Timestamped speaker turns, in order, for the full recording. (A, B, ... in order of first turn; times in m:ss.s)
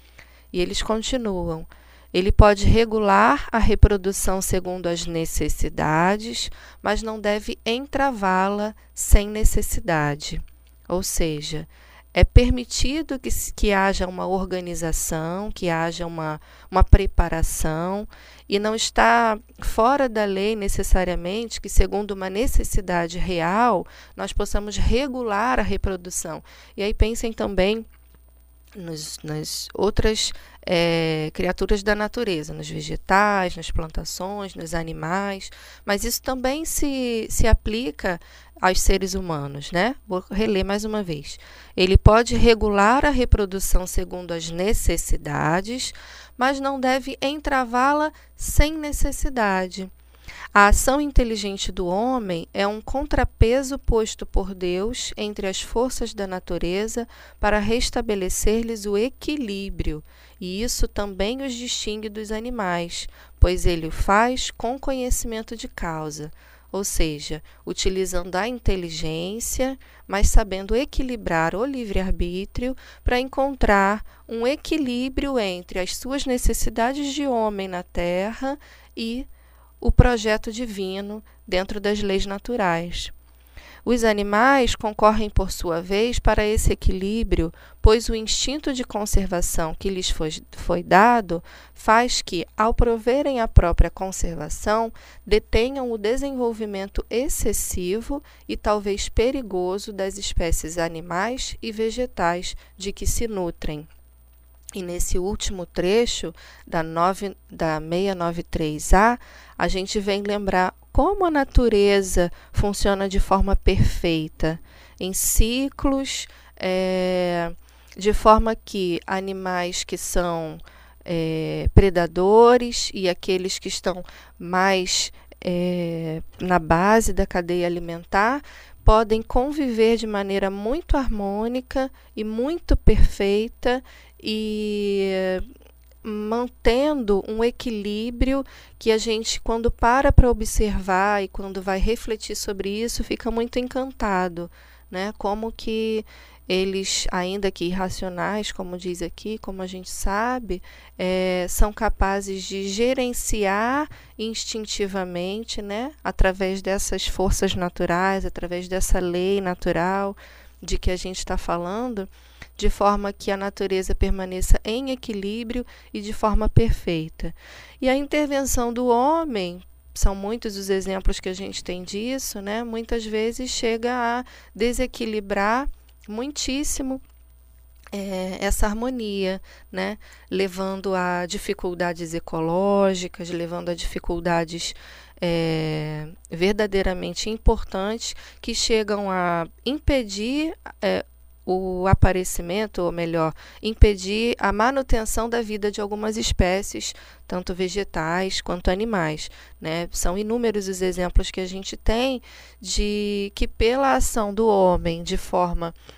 0:00.5-0:27.9 A
0:28.8-0:49.9 A
0:50.6-1:19.3 A
1:19.8-1:23.1 A
1:23.8-1:43.9 A
1:44.8-2:15.5 A
2:16.0-2:57.0 A
2:57.9-3:25.8 A